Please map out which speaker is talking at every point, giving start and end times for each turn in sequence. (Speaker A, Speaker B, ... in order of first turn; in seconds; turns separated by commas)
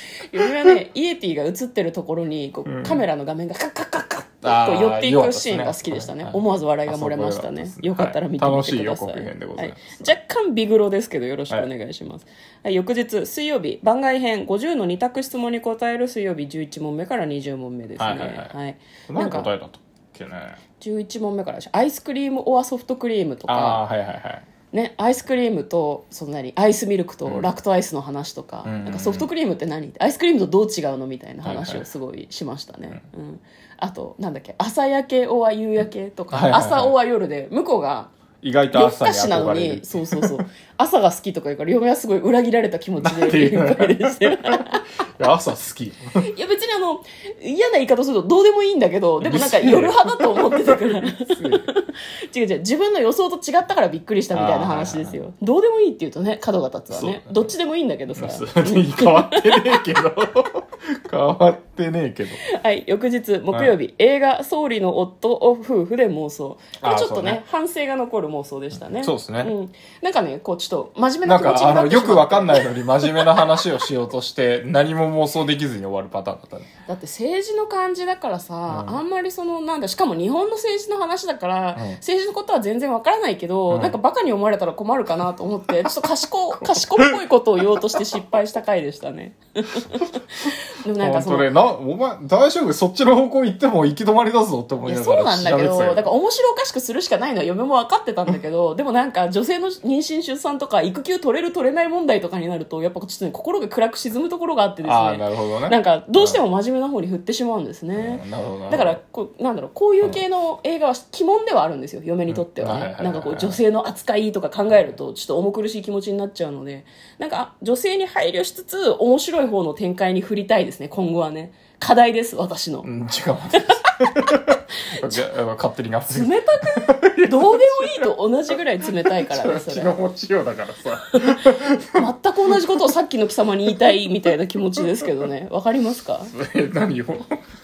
Speaker A: 0.2-19.5, Speaker B: 2.6-3.0, Speaker B: 4.4-10.1, Speaker B: 18.0-18.5, Speaker B: 19.1-20.6, Speaker A: 20.8-23.8, Speaker B: 23.5-24.4, Speaker A: 24.7-38.1, Speaker B: 27.2-27.5, Speaker B: 28.6-29.3, Speaker B: 31.4-31.8, Speaker B: 36.3-36.9, Speaker B: 38.4-40.4, Speaker A: 38.7-44.9, Speaker B: 43.0-44.6, Speaker B: 45.2-46.2, Speaker A: 46.3-59.8, Speaker B: 49.2-51.7, Speaker B: 54.3-55.2, Speaker B: 56.9-57.5, Speaker B: 58.1-62.4, Speaker A: 62.5-72.6, Speaker B: 66.8-67.4, Speaker B: 69.0-69.5, Speaker B: 71.2-76.7, Speaker A: 76.9-91.5, Speaker B: 78.7-79.0, Speaker B: 83.7-84.0, Speaker B: 86.6-87.2, Speaker B: 91.0-96.1, Speaker A: 94.8-122.9, Speaker B: 104.8-106.4, Speaker B: 108.0-109.0, Speaker B: 112.3-113.6, Speaker B: 122.8-128.1, Speaker A: 123.7-124.3, Speaker A: 124.9-125.2, Speaker A: 126.1-130.0, Speaker B: 128.8-132.0, Speaker A: 131.1-136.3, Speaker B: 136.2-137.3